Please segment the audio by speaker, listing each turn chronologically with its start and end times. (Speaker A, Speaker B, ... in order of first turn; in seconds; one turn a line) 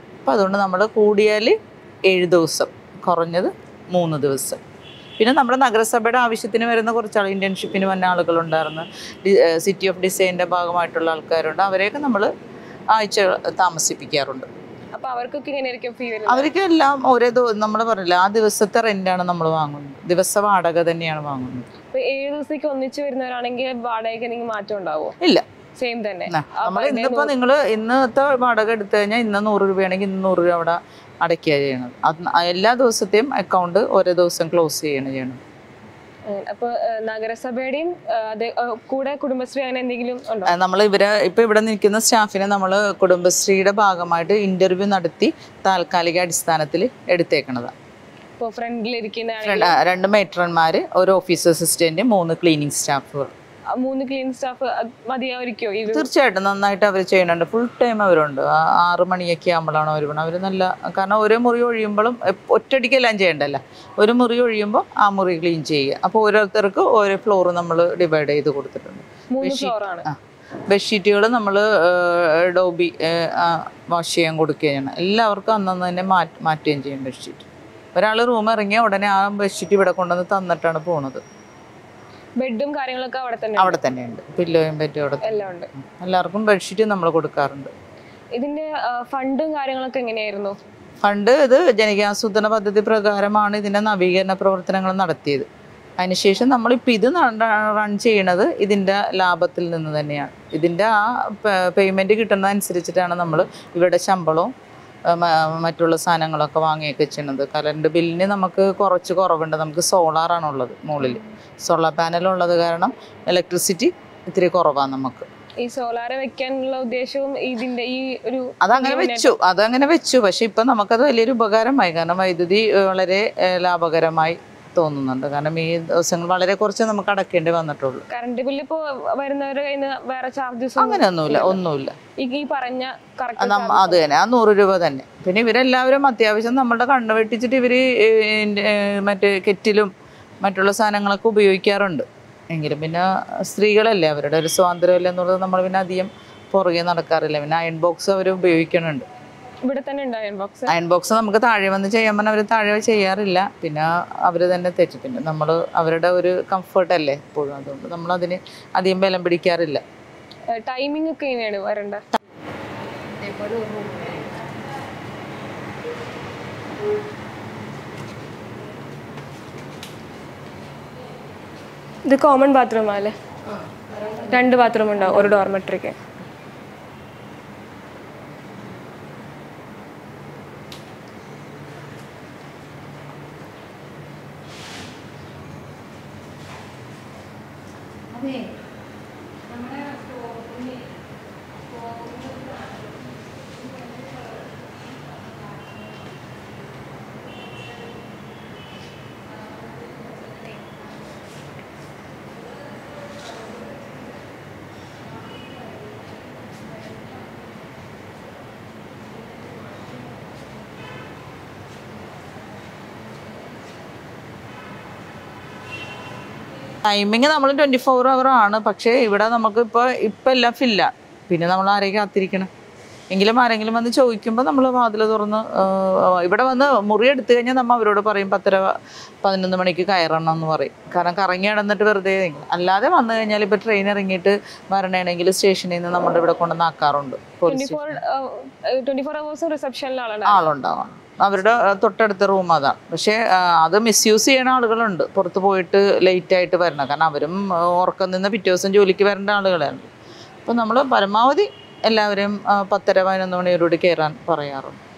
Speaker A: 0.2-4.6
Speaker A: 5.2-12.3
Speaker A: 12.9-14.5
Speaker B: 14.9-16.5
Speaker A: 16.3-21.7
Speaker B: 21.9-25.1
Speaker B: 25.8-27.3
Speaker A: 26.3-35.4
Speaker B: 36.3-40.5
Speaker A: 40.5-47.7
Speaker B: 48.4-49.8
Speaker A: 49.4-53.3
Speaker B: 53.7-56.1
Speaker A: 55.9-70.2
Speaker B: 69.3-70.1
Speaker A: 70.7-81.2
Speaker B: 82.4-83.8
Speaker A: 83.6-87.7
Speaker B: 85.2-85.7
Speaker B: 88.4-90.6
Speaker A: 91.0-95.5
Speaker A: 96.0-104.5
Speaker A: 105.1-115.3
Speaker B: 115.6-119.3
Speaker A: 118.6-128.0
Speaker B: 128.1-131.6
Speaker A: 130.8-131.9
Speaker B: 132.2-134.0
Speaker A: 133.4-139.9
Speaker A: 140.4-149.1
Speaker B: 149.6-150.7
Speaker A: 150.7-159.8
Speaker B: 160.5-162.0
Speaker C: 163.1-164.3
Speaker B: 172.0-173.2
Speaker B: 174.2-176.0
Speaker C: 188.1-188.5
Speaker C: 189.6-189.9
Speaker A: 216.8-222.5
Speaker A: 223.1-228.7
Speaker A: 229.2-238.0
Speaker B: 237.4-240.4
Speaker A: 240.2-249.9
Speaker A: 250.4-254.8